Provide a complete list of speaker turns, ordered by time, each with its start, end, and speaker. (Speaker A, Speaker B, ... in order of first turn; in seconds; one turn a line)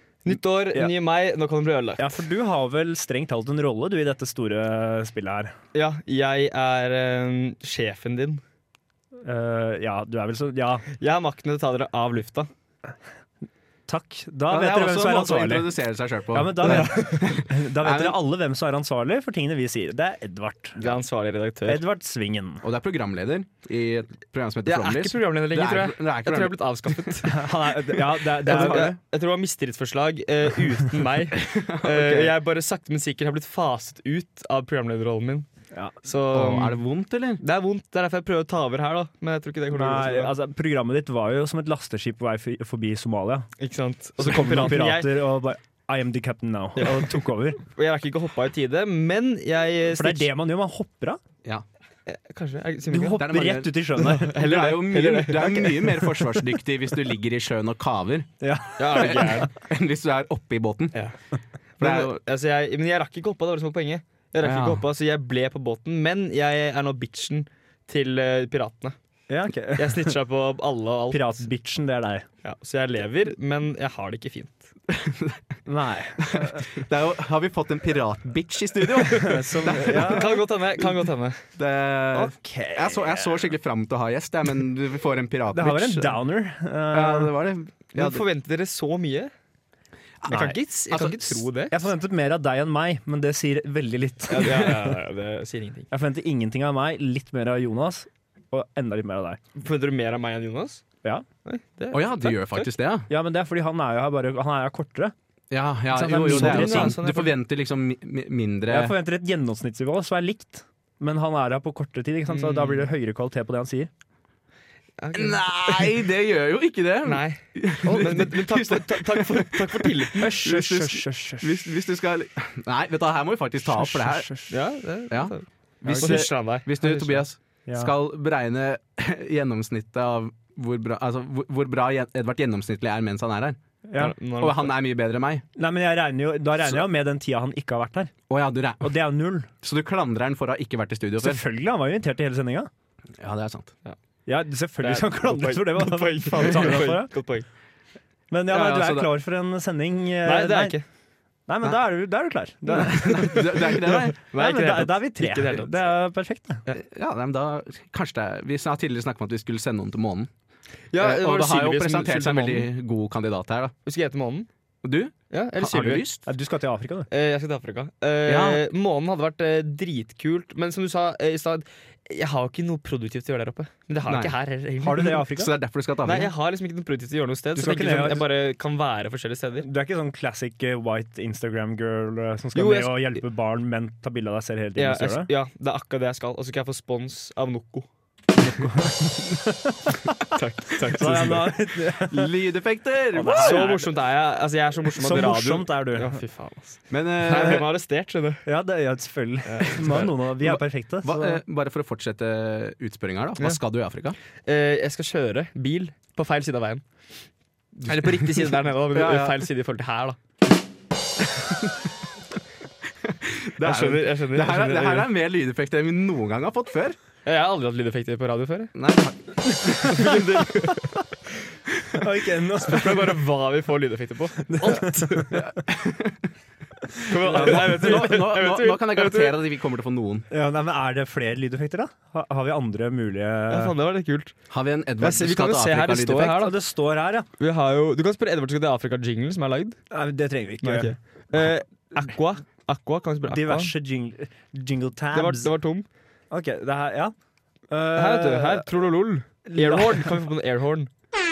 Speaker A: 0.2-2.1
Speaker B: 2.0-5.5
Speaker A: 5.7-8.4
Speaker B: 9.2-10.9
Speaker A: 11.0-12.5
Speaker B: 13.9-15.7
Speaker C: 14.5-18.2
Speaker B: 16.3-20.8
Speaker A: 16.7-17.1
Speaker A: 20.8-21.8
Speaker B: 21.7-22.6
Speaker C: 22.6-27.2
Speaker A: 24.7-27.4
Speaker B: 27.2-28.9
Speaker A: 28.4-35.5
Speaker C: 28.5-29.0
Speaker C: 31.4-32.3
Speaker A: 36.0-36.8
Speaker C: 36.3-37.4
Speaker A: 37.4-40.3
Speaker B: 39.7-43.5
Speaker A: 43.6-45.1
Speaker B: 44.2-47.6
Speaker A: 46.8-50.3
Speaker B: 49.9-51.2
Speaker A: 52.1-53.2
Speaker B: 52.9-54.3
Speaker C: 53.1-58.3
Speaker A: 54.0-56.0
Speaker B: 58.4-59.4
Speaker A: 58.8-59.5
Speaker C: 58.9-61.0
Speaker A: 61.8-69.0
Speaker C: 61.8-62.2
Speaker B: 64.4-64.8
Speaker B: 69.3-70.1
Speaker A: 69.8-71.4
Speaker B: 71.1-72.3
Speaker A: 72.4-74.6
Speaker C: 74.9-75.4
Speaker B: 75.7-76.7
Speaker C: 76.2-80.9
Speaker B: 79.2-80.4
Speaker A: 79.6-81.4
Speaker C: 81.6-86.2
Speaker B: 82.1-83.4
Speaker B: 85.5-87.3
Speaker C: 86.9-88.2
Speaker A: 87.9-89.3
Speaker C: 90.2-91.5
Speaker A: 90.3-91.9
Speaker B: 91.7-94.9
Speaker A: 94.3-95.9
Speaker B: 95.9-99.4
Speaker A: 99.6-100.8
Speaker A: 101.5-102.7
Speaker C: 101.9-103.1
Speaker B: 103.1-105.1
Speaker C: 105.5-109.0
Speaker B: 105.9-107.0
Speaker A: 106.0-107.3
Speaker B: 108.7-113.9
Speaker A: 112.3-112.9
Speaker A: 115.0-115.9
Speaker C: 115.1-124.4
Speaker A: 117.0-120.3
Speaker B: 120.2-121.6
Speaker B: 123.6-124.5
Speaker A: 124.5-125.4
Speaker C: 125.1-133.6
Speaker B: 125.8-126.2
Speaker A: 126.0-127.2
Speaker B: 127.7-127.9
Speaker B: 133.9-134.1
Speaker A: 134.0-134.7
Speaker C: 134.4-135.4
Speaker B: 135.6-138.1
Speaker C: 138.3-138.9
Speaker B: 138.8-139.5
Speaker C: 139.6-141.4
Speaker B: 141.2-142.7
Speaker C: 143.2-143.7
Speaker B: 144.3-147.1
Speaker A: 144.8-147.5
Speaker B: 148.3-150.8
Speaker C: 148.5-149.1
Speaker A: 150.2-150.8
Speaker B: 151.5-153.5
Speaker C: 152.8-154.2
Speaker A: 153.1-155.8
Speaker B: 154.3-156.6
Speaker C: 156.7-160.3
Speaker A: 160.9-162.7
Speaker C: 161.0-163.7
Speaker A: 163.9-164.5
Speaker C: 164.8-166.3
Speaker A: 165.3-166.1
Speaker B: 166.3-167.1
Speaker A: 167.1-175.2
Speaker C: 168.2-168.7
Speaker C: 174.1-174.4
Speaker B: 174.8-175.5
Speaker C: 175.1-176.3
Speaker A: 176.1-179.7
Speaker B: 177.6-178.3
Speaker B: 179.6-185.3
Speaker A: 182.6-183.2
Speaker A: 184.8-187.9
Speaker B: 188.4-189.9
Speaker A: 190.2-191.5
Speaker B: 190.9-192.3
Speaker C: 192.1-193.8
Speaker B: 193.1-193.9
Speaker A: 193.4-198.4
Speaker B: 195.0-196.2
Speaker C: 196.9-197.7
Speaker B: 198.4-201.4
Speaker A: 199.5-200.1
Speaker C: 200.4-204.2
Speaker A: 204.5-206.8
Speaker C: 207.8-209.5
Speaker A: 207.8-210.2
Speaker C: 211.4-211.9
Speaker C: 213.0-217.0
Speaker A: 213.6-215.1
Speaker A: 217.2-218.7
Speaker C: 218.8-220.1
Speaker B: 219.5-219.8
Speaker A: 219.7-221.0
Speaker B: 221.9-223.2
Speaker A: 222.6-225.4
Speaker B: 224.5-225.4
Speaker C: 225.4-226.2
Speaker B: 226.9-227.7
Speaker A: 227.1-229.3
Speaker C: 227.2-230.3
Speaker B: 230.3-233.7
Speaker A: 233.5-234.3
Speaker C: 234.5-236.5
Speaker A: 235.0-236.6
Speaker B: 236.3-237.3
Speaker A: 237.4-239.8
Speaker B: 239.9-240.9
Speaker A: 240.6-243.7
Speaker B: 243.3-245.5
Speaker A: 245.1-245.9
Speaker B: 246.3-247.1
Speaker B: 247.7-248.7
Speaker A: 247.9-250.9
Speaker B: 249.5-250.1